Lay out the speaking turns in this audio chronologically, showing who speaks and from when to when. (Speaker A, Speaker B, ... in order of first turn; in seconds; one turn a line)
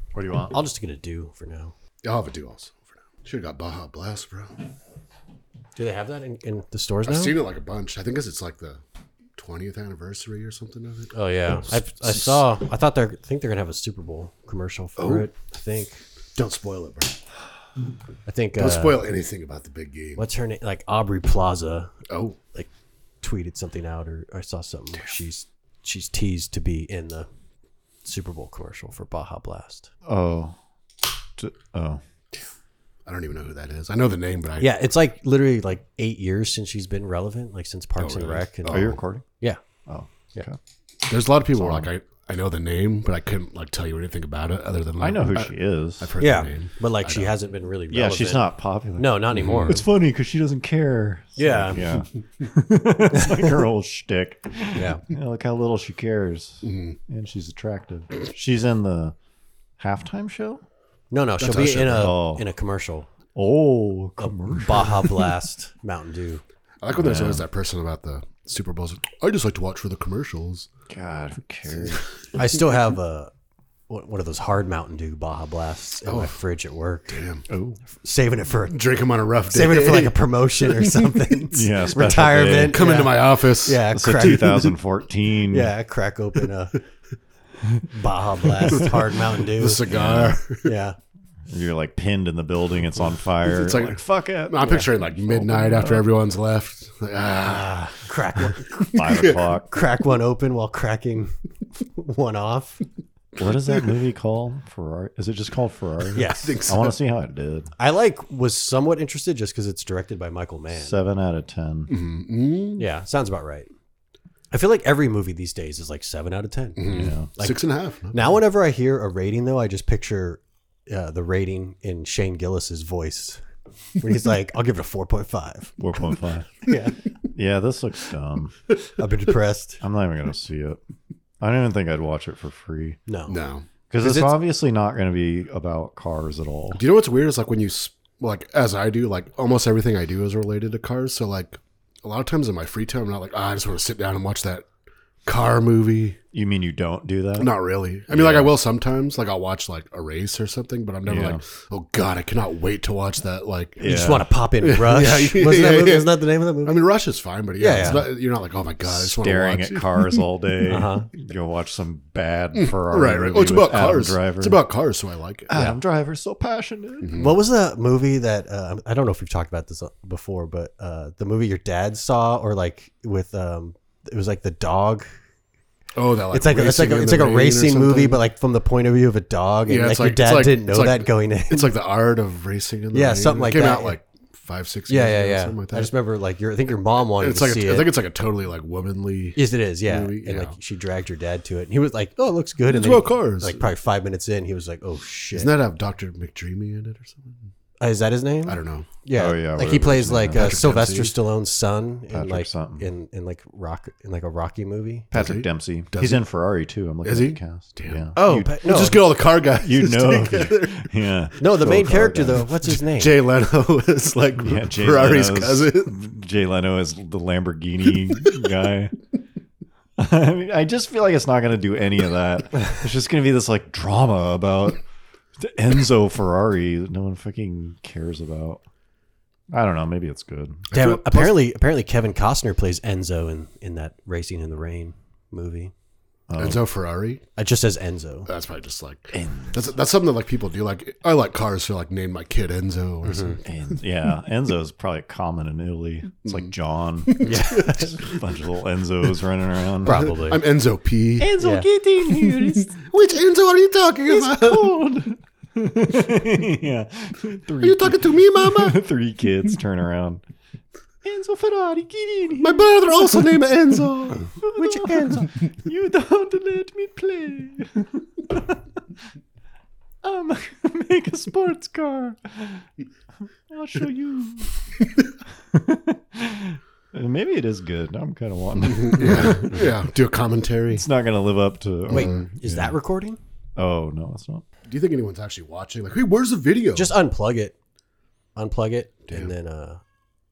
Speaker A: 0.1-0.6
Speaker B: 0.5-1.7
Speaker C: 2.0-4.6
Speaker B: 5.8-7.4
Speaker C: 7.0-8.8
Speaker C: 9.4-11.1
Speaker B: 11.1-16.0
Speaker C: 15.0-15.3
Speaker C: 16.4-17.1
Speaker B: 18.3-19.0
Speaker C: 18.6-20.2
Speaker B: 20.1-21.9
Speaker C: 22.1-22.4
Speaker B: 23.2-27.3
Speaker B: 28.0-29.9
Speaker A: 30.1-30.6
Speaker A: 31.4-32.0
Speaker C: 33.0-34.7
Speaker B: 34.6-39.6
Speaker C: 38.0-39.0
Speaker A: 38.7-39.2
Speaker A: 39.9-40.6
Speaker C: 41.1-47.4
Speaker A: 41.5-41.9
Speaker A: 45.0-46.1
Speaker B: 46.2-49.9
Speaker A: 47.9-59.1
Speaker C: 49.4-49.8
Speaker B: 51.4-51.8
Speaker B: 53.1-53.5
Speaker B: 54.7-55.0
Speaker C: 56.6-57.0
Speaker A: 59.8-60.6
Speaker B: 61.1-63.1
Speaker C: 61.4-62.1
Speaker A: 61.9-62.4
Speaker A: 63.3-65.0
Speaker B: 64.2-66.4
Speaker C: 66.8-70.7
Speaker A: 66.9-67.4
Speaker A: 70.9-72.0
Speaker B: 72.3-73.3
Speaker B: 73.9-77.2
Speaker C: 76.0-76.4
Speaker C: 77.1-77.4
Speaker A: 77.5-77.8
Speaker B: 77.9-78.8
Speaker C: 78.7-81.2
Speaker B: 79.5-84.8
Speaker A: 81.5-83.0
Speaker C: 82.7-84.6
Speaker A: 83.9-85.7
Speaker B: 85.5-86.8
Speaker B: 87.9-89.8
Speaker A: 88.6-88.9
Speaker C: 89.4-90.7
Speaker A: 89.9-90.4
Speaker B: 90.6-91.0
Speaker A: 91.5-96.1
Speaker C: 93.4-98.0
Speaker B: 97.4-102.8
Speaker C: 98.6-99.5
Speaker A: 98.9-99.8
Speaker A: 103.3-107.7
Speaker B: 106.1-106.6
Speaker C: 106.2-107.0
Speaker B: 107.8-111.0
Speaker A: 110.7-111.9
Speaker C: 111.9-112.8
Speaker B: 112.8-113.7
Speaker B: 114.5-123.4
Speaker C: 116.8-118.4
Speaker A: 116.9-117.3
Speaker B: 124.0-125.7
Speaker A: 125.8-126.6
Speaker B: 126.6-127.0
Speaker A: 127.3-128.6
Speaker B: 129.0-129.8
Speaker A: 129.8-130.8
Speaker A: 131.4-133.0
Speaker B: 133.1-133.3
Speaker C: 133.3-133.7
Speaker A: 133.9-136.8
Speaker B: 134.0-134.3
Speaker C: 136.7-144.7
Speaker C: 145.2-146.2
Speaker A: 146.3-147.5
Speaker C: 147.4-153.9
Speaker A: 148.1-148.5
Speaker A: 151.1-151.4
Speaker A: 153.8-154.3
Speaker B: 153.8-156.8
Speaker C: 154.6-160.2
Speaker B: 157.6-158.1
Speaker A: 158.8-164.6
Speaker B: 160.6-161.1
Speaker C: 162.6-165.5
Speaker A: 165.5-167.2
Speaker B: 165.5-165.8
Speaker C: 167.0-167.4
Speaker B: 167.1-175.1
Speaker C: 175.9-178.2
Speaker B: 176.3-181.7
Speaker C: 179.7-185.9
Speaker B: 182.9-184.0
Speaker B: 184.9-187.9
Speaker C: 187.2-190.5
Speaker B: 189.3-195.5
Speaker C: 192.7-193.7
Speaker C: 195.3-197.4
Speaker B: 197.8-205.1
Speaker C: 198.5-198.9
Speaker A: 199.1-200.6
Speaker C: 200.3-201.1
Speaker A: 202.1-202.9
Speaker A: 205.1-208.5
Speaker C: 205.1-206.2
Speaker C: 207.0-210.9
Speaker B: 208.1-209.0
Speaker A: 209.6-212.4
Speaker B: 211.4-213.1
Speaker C: 212.7-215.9
Speaker A: 214.4-219.0
Speaker A: 220.0-224.8
Speaker A: 225.4-228.6
Speaker A: 229.5-230.6
Speaker C: 230.7-231.4
Speaker B: 230.7-235.7
Speaker A: 236.3-236.6
Speaker C: 236.4-237.2
Speaker B: 237.3-238.3
Speaker C: 238.3-243.5
Speaker A: 239.1-239.7
Speaker B: 243.1-243.3
Speaker A: 243.4-250.1
Speaker C: 246.2-246.5
Speaker C: 247.1-248.2
Speaker B: 247.2-247.9
Speaker B: 249.8-250.4
Speaker C: 249.8-251.4
Speaker A: 251.2-252.8
Speaker B: 251.4-251.7
Speaker C: 252.0-254.8
Speaker A: 254.1-260.2
Speaker C: 257.6-258.8
Speaker A: 261.0-268.6
Speaker C: 262.4-264.3
Speaker B: 264.5-265.3
Speaker A: 270.0-272.6
Speaker A: 273.5-274.6
Speaker A: 275.5-279.8
Speaker C: 278.6-280.8
Speaker A: 280.7-282.8
Speaker C: 281.9-282.2
Speaker B: 281.9-283.2
Speaker A: 283.6-284.4
Speaker C: 284.6-286.9
Speaker B: 286.7-287.5
Speaker B: 288.4-289.8